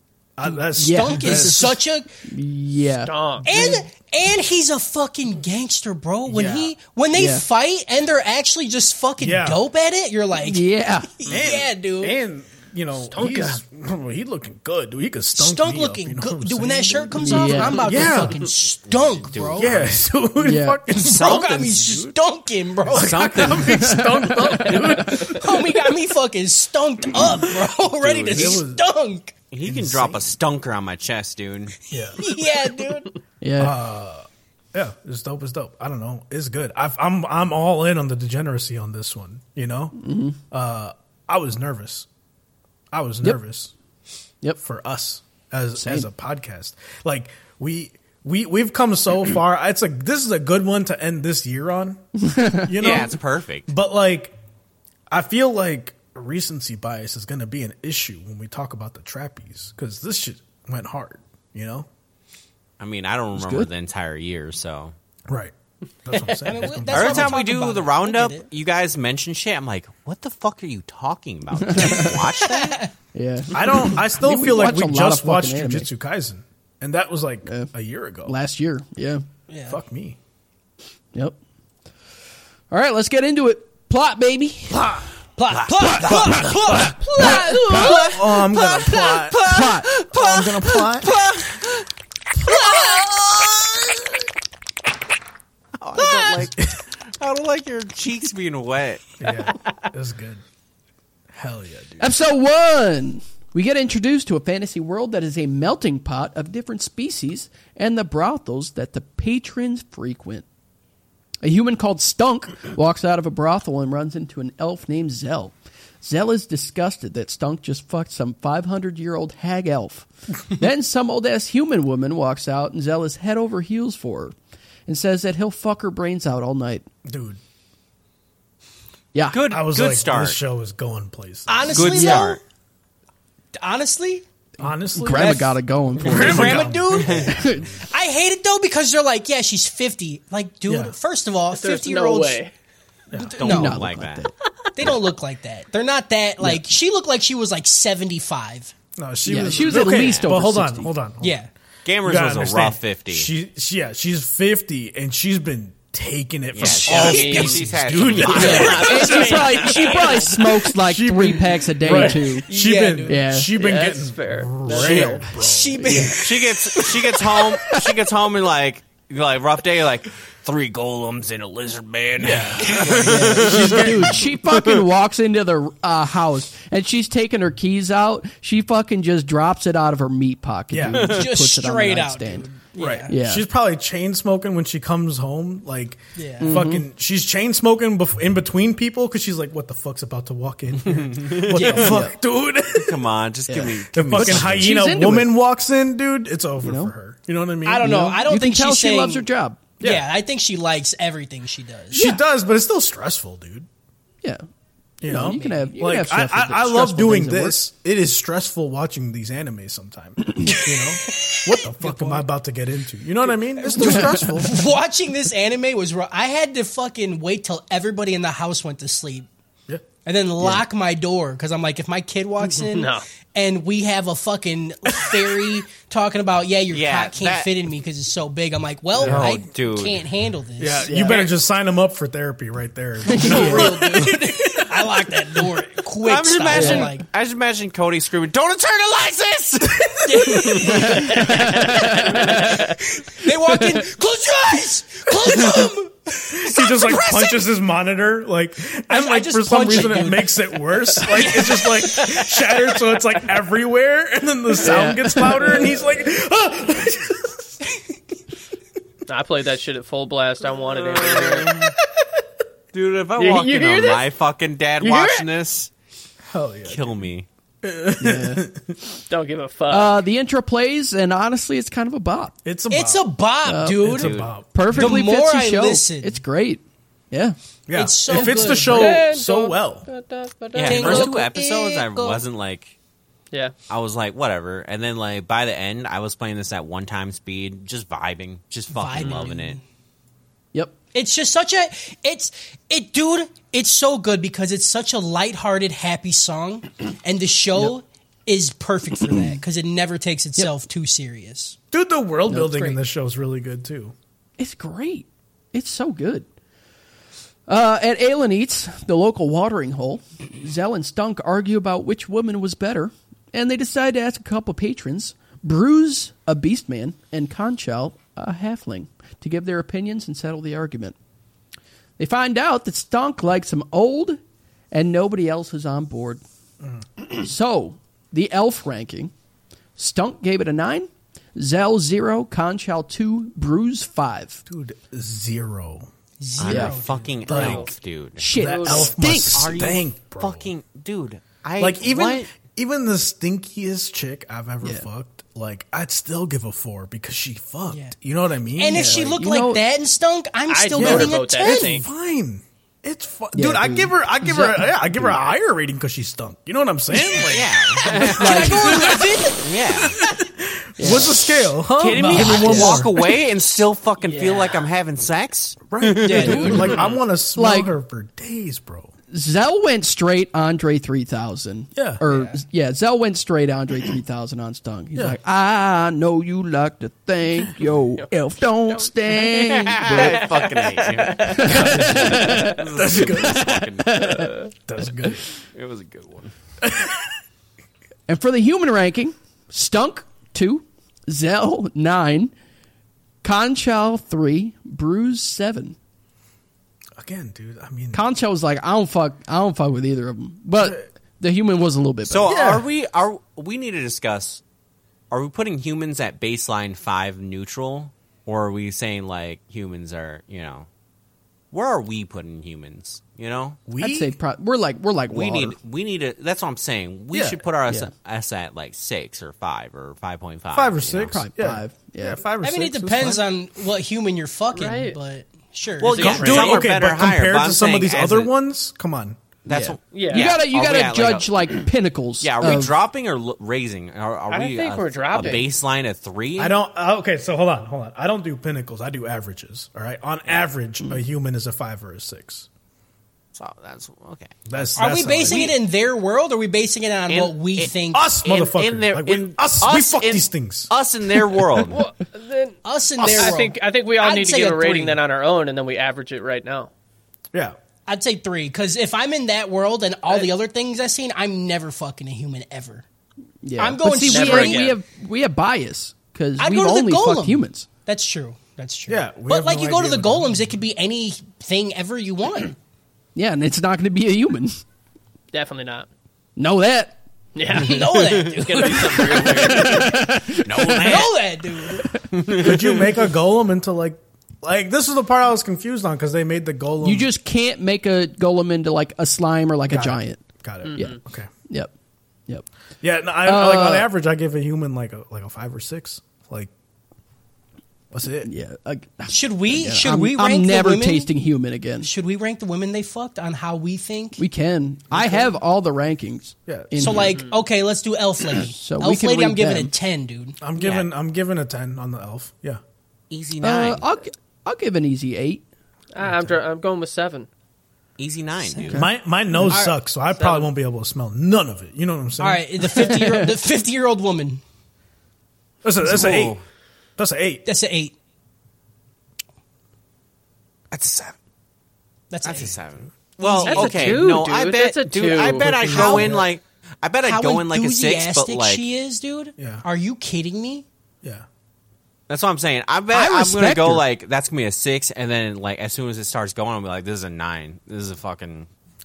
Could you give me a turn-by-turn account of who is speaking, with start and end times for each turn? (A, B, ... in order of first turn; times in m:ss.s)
0:00.4-0:01.8 A
0:00.5-0:03.1 B
0:00.8-0:02.1 C
0:03.0-0:03.6 D
0:03.4-0:12.2 C
0:03.5-0:03.8 A
0:06.3-0:06.7 A
0:07.1-0:07.4 B
0:09.2-0:09.6 A
0:10.4-0:11.1 B
0:11.3-0:18.4 A
0:13.1-0:13.5 C
0:15.3-0:19.8 C
0:17.2-0:17.9 B
0:18.9-0:20.0 E
0:19.6-0:22.1 A
0:20.4-0:20.8 B
0:20.9-0:23.2 C
0:22.9-0:25.6 A
0:22.9-0:24.0 E
0:23.6-0:24.9 B
0:24.9-0:29.3 C
0:28.0-0:28.6 E
0:28.3-0:28.8 A
0:29.5-0:31.8 E
0:29.6-0:30.2 A
0:31.9-0:32.4 A
0:32.2-0:33.1 C
0:33.4-0:33.8 B
0:33.6-0:42.1 A
0:40.0-0:40.4 B
0:42.9-0:43.7 A
0:44.6-0:54.3 A
0:45.8-0:46.1 B
0:52.2-0:52.8 B
0:52.8-0:53.7 E
0:55.1-1:01.9 A
1:02.8-1:04.9 E
1:03.4-1:03.7 B
1:05.3-1:05.5 A
1:06.0-1:07.4 A
1:06.1-1:08.5 C
1:06.9-1:12.8 E
1:11.5-1:12.3 B
1:12.4-1:12.9 C
1:13.1-1:15.9 B
1:13.5-1:18.3 A
1:17.4-1:17.7 B
1:18.2-1:19.2 B
1:19.5-1:19.8 C
1:19.7-1:20.2 A
1:22.7-1:25.0 B
1:24.7-1:25.0 A
1:25.4-1:29.0 C
1:25.5-1:26.4 E
1:25.9-1:29.4 A
1:26.7-1:28.0 B
1:27.7-1:28.4 E
1:29.3-1:29.9 B
1:29.3-1:30.4 E
1:30.0-1:31.1 A
1:31.0-1:31.8 E
1:32.4-1:34.1 E
1:32.4-1:33.0 C
1:35.8-1:39.2 E
1:36.3-1:36.8 A
1:39.2-1:40.4 A
1:41.3-1:42.1 A
1:42.0-1:50.4 B
1:51.4-2:04.3 B
2:04.9-2:06.8 B
2:07.0-2:07.4 A
2:09.1-2:09.4 B
2:09.3-2:10.4 E
2:09.4-2:12.0 A
2:11.5-2:12.4 C
2:11.7-2:12.4 E
2:12.0-2:12.4 B
2:13.5-2:14.2 C
2:14.6-2:17.3 A
2:14.9-2:16.7 B
2:15.1-2:22.4 C
2:16.9-2:17.6 E
2:17.3-2:17.8 B
2:20.7-2:21.0 A
2:21.5-2:22.5 D
2:23.1-2:23.4 A
2:23.1-2:23.8 C
2:23.2-2:24.3 E
2:23.4-2:24.3 B
2:24.7-2:28.7 C
2:26.4-2:26.7 B
2:29.0-2:31.4 A
2:29.2-2:30.9 B
2:29.6-2:30.3 E
2:31.2-2:31.5 C
2:31.8-2:33.3 E
2:32.0-2:39.0 A
2:36.5-2:39.0 E
2:36.6-2:37.6 C
2:36.9-2:37.6 D
2:38.3-2:42.5 B
2:38.3-2:40.4 C
2:38.4-2:40.4 D
2:40.7-2:46.2 A
2:41.8-2:43.2 C
2:43.1-2:43.5 B
2:43.5-2:45.2 D
2:44.7-2:45.2 E
2:45.3-2:46.6 C
2:45.8-2:46.2 B
2:46.1-2:54.8 E
2:47.3-2:48.0 B
2:52.2-2:54.2 A
2:53.0-3:02.5 B
3:00.7-3:01.2 A
3:00.9-3:03.1 C
3:02.8-3:13.0 A
3:03.1-3:03.5 B
3:06.2-3:06.6 C
3:06.4-3:06.9 B
3:10.8-3:12.0 E
3:11.5-3:12.0 C
3:11.8-3:12.1 B
3:12.7-3:14.8 E
3:13.5-3:15.4 B
3:13.9-3:18.0 A
3:16.6-3:16.9 B
3:17.6-3:19.3 C
3:17.8-3:19.6 B
3:19.8-3:22.2 C
3:19.8-3:20.1 A
3:21.9-3:23.7 A
3:25.0-3:34.6 A
3:25.0-3:27.6 B
3:31.7-3:32.3 C
3:33.3-3:39.3 C
3:33.8-3:34.4 B
3:40.0-3:51.0 C
3:42.5-3:43.0 D
3:46.7-3:47.5 E
3:49.0-3:50.0 E
3:49.0-3:49.4 A
3:50.6-3:54.8 A
3:50.8-3:51.2 B
3:53.0-3:54.0 B
3:53.1-3:57.0 C
3:56.0-4:02.4 E
3:56.5-3:56.9 B
4:00.0-4:07.5 C
4:00.5-4:00.9 A
4:00.8-4:02.2 B
4:01.1-4:02.7 D
4:06.3-4:17.6 A
4:08.9-4:12.3 C
4:14.6-4:15.6 B
4:19.1-4:21.7 D
4:20.7-4:21.7 E
4:22.7-4:25.7 E
4:23.2-4:24.0 D
4:24.8-4:25.3 D
4:26.3-4:26.9 A
4:26.6-4:27.2 E
4:27.6-4:28.8 A
4:28.0-4:28.5 B
4:29.1-4:29.9 D
4:29.7-4:32.3 B
4:32.4-4:33.1 A
4:32.7-4:36.2 C
4:33.4-4:37.4 B
4:33.8-4:35.0 A
4:33.9-4:34.3 E
4:37.7-4:39.9 A
4:37.7-4:39.0 C
4:38.1-4:38.6 B
4:38.6-4:41.1 D
4:40.5-4:42.7 E
4:40.6-4:42.2 C
4:43.7-4:49.6 E
4:48.7-4:49.6 C
4:50.9-5:01.6 C
4:59.0-4:59.4 B
5:01.7-5:03.9 A
5:02.3-5:02.7 B
5:02.5-5:02.8 C
5:04.4-5:06.3 B
5:07.5-5:20.9 B
5:22.0-5:24.2 B
5:24.7-5:26.2 B
5:27.1-5:29.1 B
5:29.8-5:34.4 B
5:34.5-5:35.9 A
5:36.2-5:37.6 C
5:36.4-5:38.3 E
5:36.4-5:36.8 B
5:37.3-5:37.7 A
5:37.3-5:37.7 D
5:38.2-5:39.6 B
5:38.3-5:40.5 A
5:38.4-5:38.9 D
5:39.1-5:42.3 E
5:41.6-5:49.2 A
5:44.6-5:44.9 B
5:47.7-5:47.9 C
5:48.6-5:51.8 C
5:48.7-5:49.6 B
5:50.5-5:51.8 D
5:50.8-5:59.1 A
5:53.3-5:55.2 B
5:57.2-6:00.0 E
5:57.8-5:59.6 C
5:58.2-5:58.6 B
6:00.0-6:02.9 A
6:00.8-6:01.2 B
6:01.7-6:06.9 E
6:02.0-6:02.9 B
6:04.0-6:04.6 D
6:05.7-6:08.9 A
6:06.0-6:06.8 C
6:07.3-6:07.7 B
6:09.1-6:20.3 B
6:11.8-6:12.0 A
6:19.3-6:24.2 E
6:19.9-6:21.6 D
6:21.2-6:24.4 B
6:21.5-6:23.6 A
6:24.7-6:25.3 A
6:25.5-6:26.3 E
6:26.6-6:27.0 A
6:28.1-6:32.3 B
6:33.2-6:35.8 B
6:37.0-6:38.0 A
6:37.9-6:42.3 B
6:42.0-6:44.4 E
6:42.2-6:42.6 A
6:45.1-6:50.7 E
6:51.5-6:53.6 E
6:53.6-6:54.1 A
6:53.8-6:55.6 B
6:55.1-7:01.2 E
6:57.1-6:57.4 A
7:00.5-7:03.3 A
7:01.1-7:02.2 B
7:02.4-7:06.6 C
7:04.5-7:05.0 D
7:05.8-7:08.3 E
7:05.9-7:06.5 D
7:06.0-7:09.2 A
7:09.4-7:11.5 E
7:09.5-7:12.8 B
7:09.9-7:10.3 D
7:12.2-7:16.5 E
7:14.3-7:15.5 D
7:16.4-7:22.5 A
7:23.3-7:24.7 E
7:24.5-7:25.6 A
7:24.8-7:28.1 C
7:27.1-7:27.7 E
7:27.9-7:30.7 A
7:28.2-7:31.8 E
7:31.7-7:32.6 D
7:32.6-7:35.0 C
7:33.0-7:33.4 A
7:33.2-7:36.7 D
7:37.9-7:42.8 C
7:43.4-7:47.7 B
7:43.6-7:44.7 C
7:44.0-7:44.8 D
7:46.4-7:52.6 C
7:48.9-7:50.4 A
7:53.1-7:54.6 B
7:55.3-7:55.9 D
7:56.4-7:57.0 B
7:57.4-7:59.9 D
7:57.5-7:59.7 C
7:58.6-8:01.2 E
7:58.8-8:01.1 B
8:00.8-8:01.9 C
8:02.1-8:02.8 E
8:02.3-8:07.1 A
8:06.8-8:10.2 B
8:09.7-8:11.3 A
8:10.6-8:11.0 D
8:10.7-8:11.7 B
8:12.8-8:16.5 A
8:13.2-8:13.9 B
8:17.9-8:18.3 A
8:18.2-8:21.9 B
8:19.1-8:21.1 C
8:21.8-8:24.2 C
8:24.2-8:27.2 B
8:24.9-8:25.3 A
8:26.5-8:27.0 A
8:26.8-8:30.4 C
8:28.3-8:29.7 B
8:30.4-8:32.6 A
8:30.6-8:30.9 E
8:33.1-8:33.8 E
8:33.4-8:35.4 B
8:35.9-8:37.3 D
8:36.0-8:36.4 A
8:38.0-8:38.8 E
8:38.6-8:38.9 B
8:38.7-8:42.9 A
8:39.5-8:39.7 C
8:40.1-8:40.5 D
8:42.2-8:44.4 C
8:42.8-8:43.3 B
8:45.6-8:46.4 A
8:45.8-8:46.4 E
8:47.0-8:47.4 A
8:47.4-8:47.9 C
8:50.7-8:51.1 A
8:52.1-8:52.6 C
8:52.2-8:58.6 E
8:53.2-8:54.0 C
8:53.4-8:56.0 D
8:55.4-8:56.3 A
8:55.7-8:56.2 C
8:57.0-9:00.6 C
8:59.4-8:59.6 A
9:02.1-9:08.5 E
9:02.9-9:03.8 B